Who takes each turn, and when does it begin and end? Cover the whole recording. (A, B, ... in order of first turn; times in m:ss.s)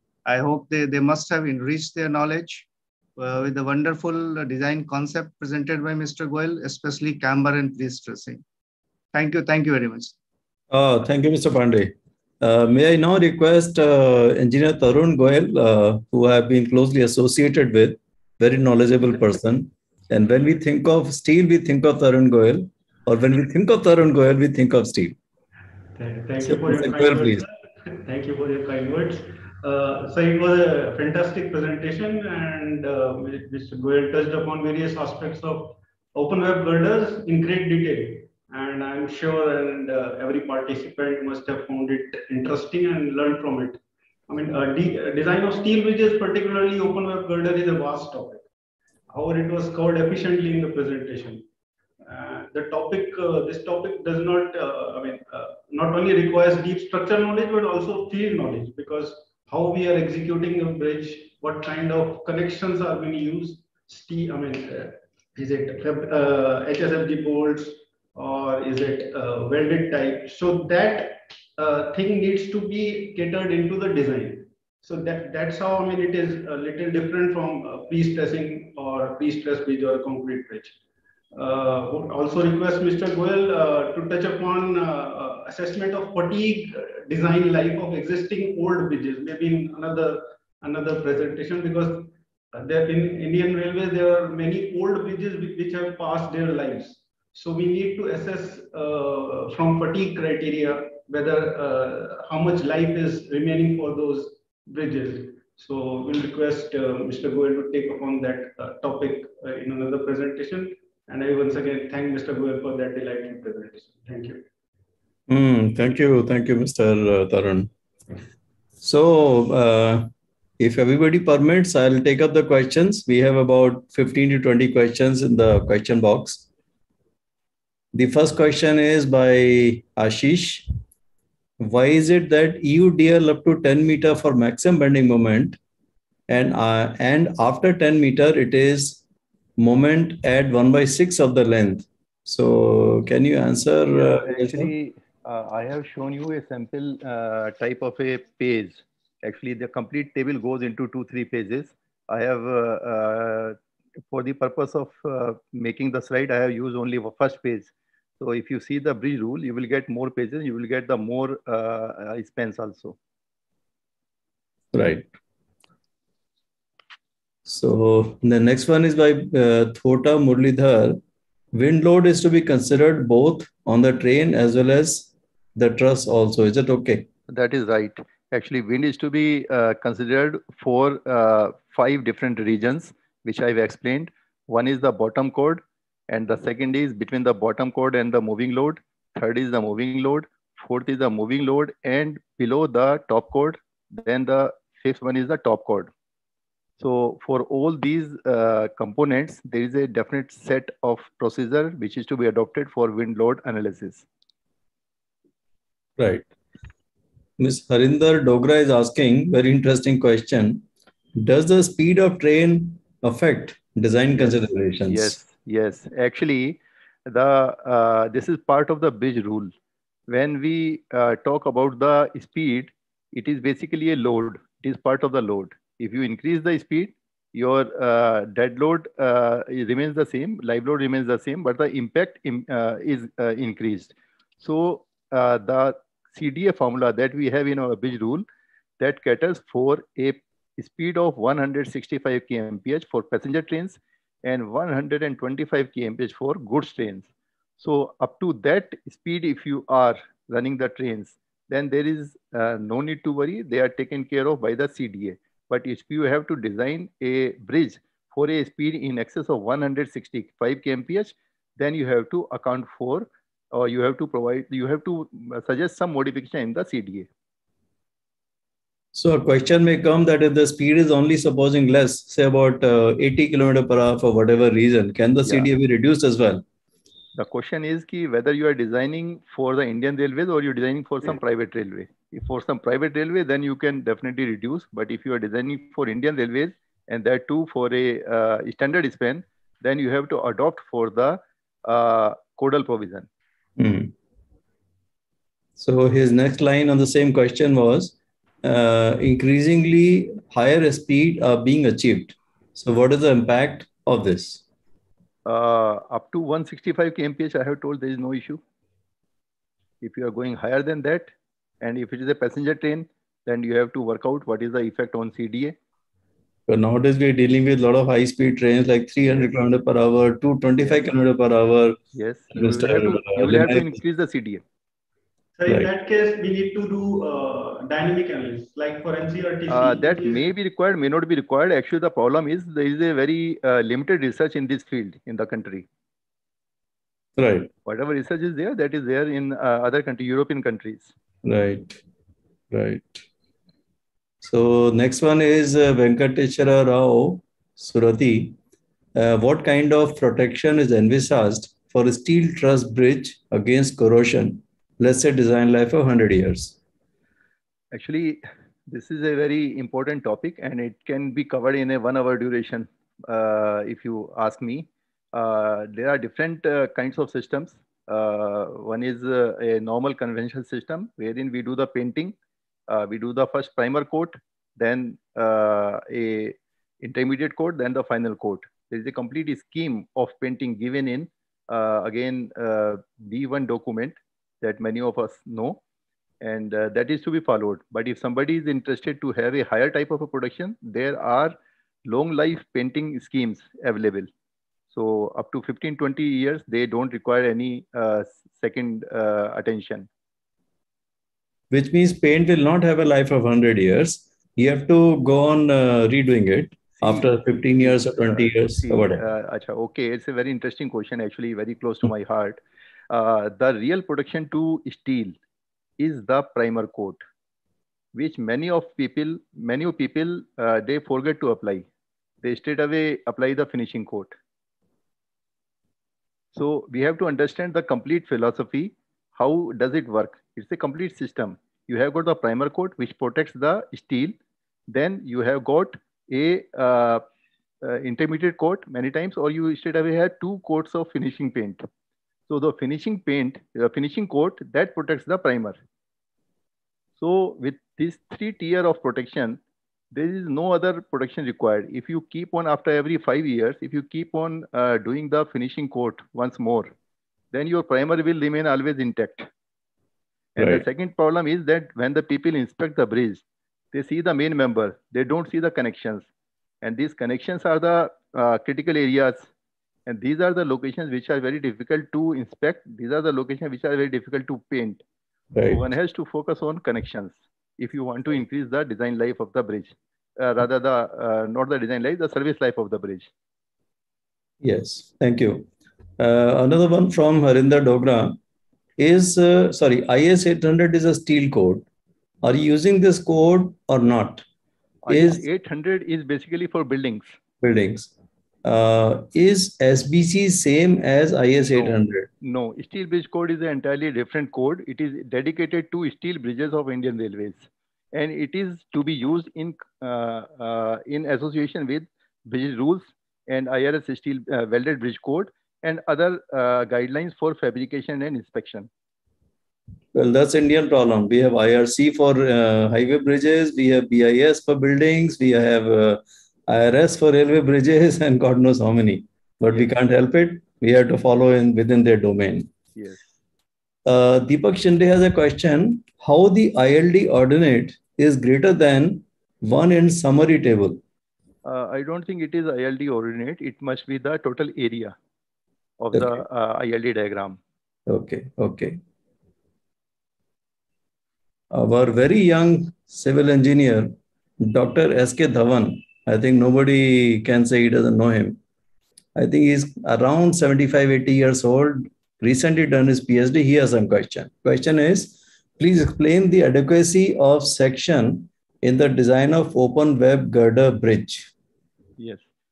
0:00.2-0:08.4 A
0:09.1-0:10.1 A
0:10.7-0:25.2 B
0:25.9-0:48.4 C
0:26.4-0:27.4 B
0:49.1-0:51.4 C
0:52.0-1:20.7 C
1:21.3-1:54.4 C
1:55.3-1:57.7 B
1:58.8-2:06.4 B
2:07.9-2:10.7 B
2:11.6-2:15.6 B
2:16.3-2:19.0 B
2:19.6-2:24.7 B
2:24.0-2:33.6 D
2:34.1-2:43.0 D
2:44.7-2:45.1 B
2:47.4-2:51.0 B
2:51.5-2:57.1 B
2:57.3-3:15.9 D
3:16.8-3:24.0 D
3:26.0-3:26.2 B
3:27.4-3:30.6 B
3:31.2-3:35.2 B
3:34.9-3:39.5 D
3:40.1-3:58.2 D
3:58.8-4:07.1 D
4:07.6-4:27.1 D
4:28.9-4:36.4 B
4:37.2-4:53.1 D
4:53.6-4:53.9 B
4:55.6-5:04.4 B
5:05.2-5:08.4 D
5:09.8-5:15.5 D
5:16.5-5:21.8 B
5:21.9-5:24.4 D
5:22.3-5:23.8 B
5:25.4-5:30.2 C
5:29.5-5:35.6 D
5:37.2-5:37.5 B
5:37.6-5:40.9 D
5:41.2-5:41.8 B
5:42.5-5:43.0 B
5:44.2-5:48.4 B
5:48.9-5:56.6 B
5:57.7-6:12.1 D
6:12.7-6:25.6 D
6:26.2-6:34.1 D
6:34.7-6:39.9 D
6:41.5-6:49.0 B
6:46.8-6:55.2 D
6:55.8-6:57.0 D
6:57.9-7:01.6 D
7:02.2-7:04.2 D
7:06.3-7:14.1 D
7:14.7-7:17.0 D
7:17.6-7:21.6 D
7:22.3-7:25.6 D
7:27.0-7:29.4 D
7:29.9-7:36.7 D
7:37.3-7:39.3 D
7:40.4-7:46.1 D
7:40.4-7:40.6 B
7:46.6-7:49.3 D
7:49.8-7:54.8 D
7:55.3-7:55.6 B
7:55.5-8:03.1 D
8:04.4-8:05.5 B
8:06.0-8:08.2 B
8:08.8-8:11.6 B
8:12.2-8:14.2 B
8:14.8-8:17.2 D
8:14.9-8:15.2 B
8:17.4-8:17.9 B
8:18.4-8:22.1 B
8:21.5-8:38.7 D
8:39.9-8:52.5 B
8:53.8-9:00.8 B
9:01.4-9:05.0 D
9:05.8-9:07.4 D
9:07.9-9:08.8 B
9:11.5-9:18.4 B
9:19.1-9:31.3 B
9:32.0-9:32.2 D